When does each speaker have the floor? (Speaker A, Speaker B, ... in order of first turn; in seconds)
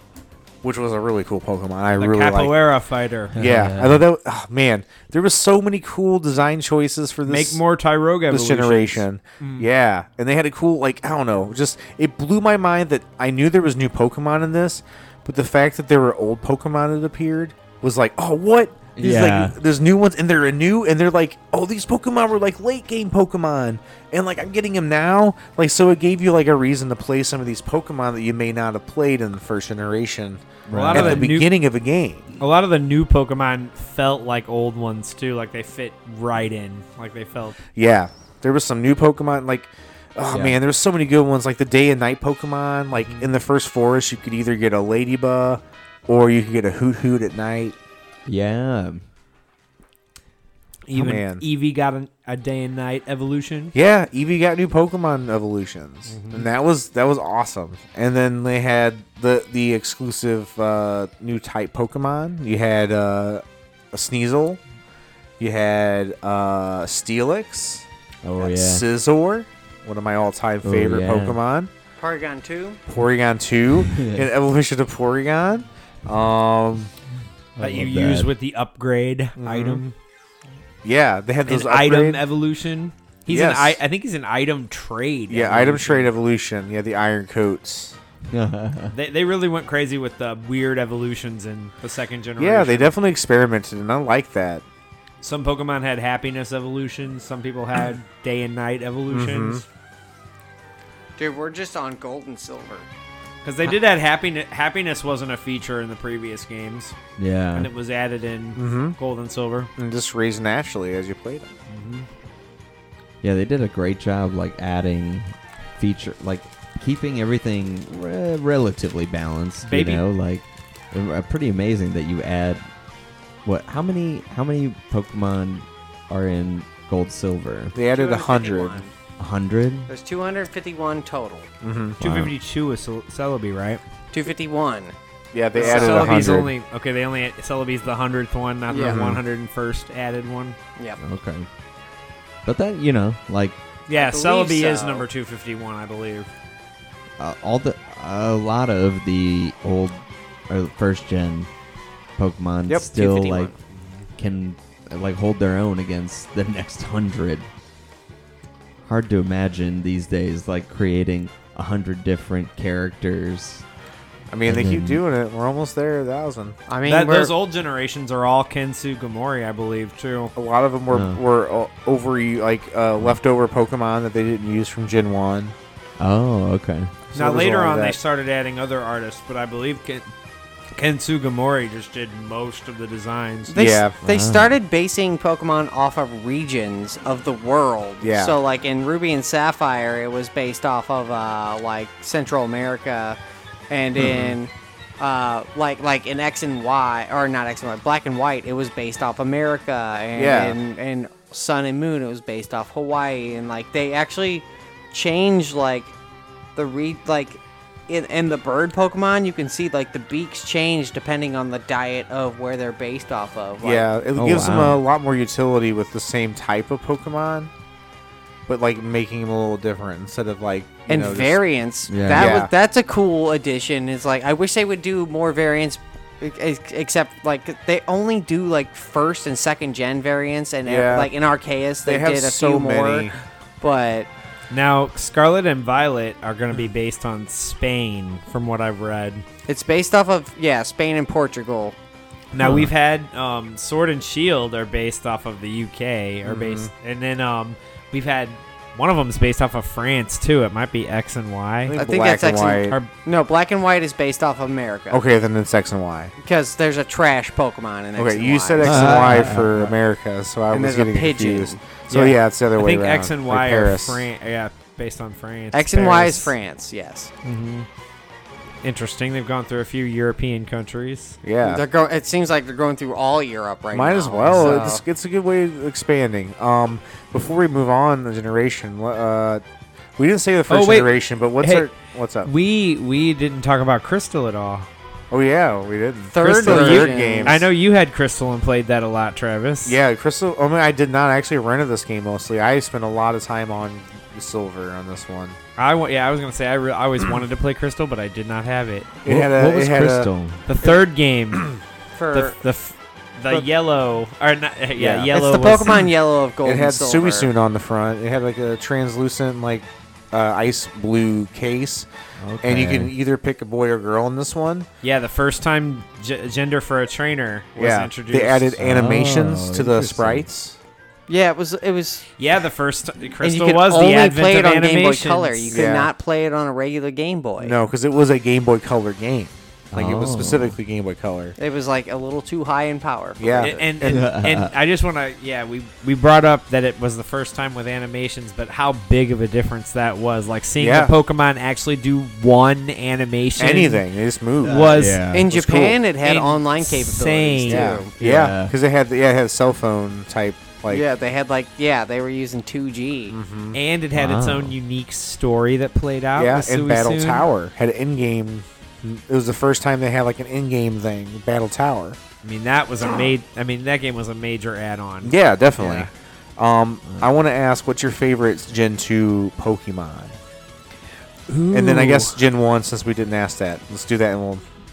Speaker A: 0.6-2.5, 3.4-7.6, 8.3-32.3, 37.7-47.8, 50.9-51.4, 53.7-64.6, 65.4-67.8, 68.4-71.7, 72.9-76.9, 79.4-79.8, 80.8-82.2, 83.3-83.8, 85.3-88.0, 92.4-94.6, 99.1-99.6, 108.5-109.0, 109.8-111.5, 127.7-128.8, 131.6-132.0, 135.3-136.5, 138.8-139.2, 164.3-166.6, 170.3-175.5, 177.1-178.0, 183.5-184.0, 188.0-188.4, 194.0-194.3, 200.1-200.6, 213.6-217.5, 218.5-221.4, 222.1-222.5, 230.6-231.1, 231.8-233.1, 246.2-246.7, 251.7-252.8, 254.9-256.1, 258.0-264.1, 271.2-271.6, 273.7-279.4, 280.0-282.3, 285.1-287.4, 289.6-295.4, 299.0-300.1, 304.8-305.1, 306.4-311.9, 312.4-314.7, 317.6-320.6, 325.5-325.9, 327.4-331.4, 333.2-334.1, 340.6-340.9, 343.4-345.8, 347.4-350.8, 353.1-353.6, 356.1-362.0, 365.0-370.2, 371.5-374.4
Speaker B: 2.0-3.4, 7.2-9.7, 30.7-31.5, 32.4-37.6, 43.0-43.3, 50.9-53.7, 56.1-56.5, 77.6-79.9, 81.5-86.1, 88.9-92.9, 95.2-99.6, 103.4-107.0, 107.5-109.7, 111.7-112.0, 119.6-120.0, 132.0-133.8, 135.6-140.6, 143.9-146.3, 153.8-154.0, 166.8-170.3, 177.1-180.1, 180.7-183.6, 234.5-239.2, 242.3-251.7, 262.6-266.3, 267.2-267.7, 268.6-271.2, 280.5-281.7, 282.2-284.7, 286.2-289.8, 295.6-299.0, 300.4-301.6, 302.1-305.9, 314.8-318.5, 322.2-325.6, 333.4-343.8, 344.4-345.0, 346.0-347.8, 353.5-357.3, 362.2-365.9, 371.3-372.2
Speaker C: 3.3-4.0, 18.9-19.6, 30.6-31.3, 40.2-40.6, 48.2-49.0, 68.2-68.8, 70.6-71.4, 73.8-74.3, 77.5-78.3, 88.3-88.9, 107.2-107.7, 113.2-122.7, 123.4-127.8, 129.2-129.9, 132.0-132.3, 136.0-136.5, 141.0-141.5, 142.4-143.6, 147.2-151.5, 152.2-153.5, 154.2-157.5, 158.8-163.6, 164.4-165.0, 170.9-171.2, 176.0-176.9, 184.0-184.5, 214.2-214.8, 221.9-222.4, 242.4-242.7, 258.6-259.7, 299.0-300.4, 312.2-312.9, 318.6-320.3, 329.7-330.6, 333.8-334.5, 344.4-345.3, 348.0-348.5, 353.9-354.6
Speaker D: 72.0-72.8, 101.2-102.9, 127.9-128.9, 129.9-131.5, 134.1-134.9, 135.6-136.0, 138.7-139.0, 143.9-145.1, 152.7-153.5, 166.7-167.3, 183.5-193.2, 193.7-205.9, 206.6-213.9, 220.9-234.1, 239.5-241.8, 251.7-255.0, 256.2-258.9, 260.5-262.2, 265.5-267.1, 271.4-274.8, 286.1-287.4, 301.9-302.4, 305.1-307.3, 321.1-322.1, 323.2-327.6, 331.4-333.7, 345.1-347.9, 350.7-353.1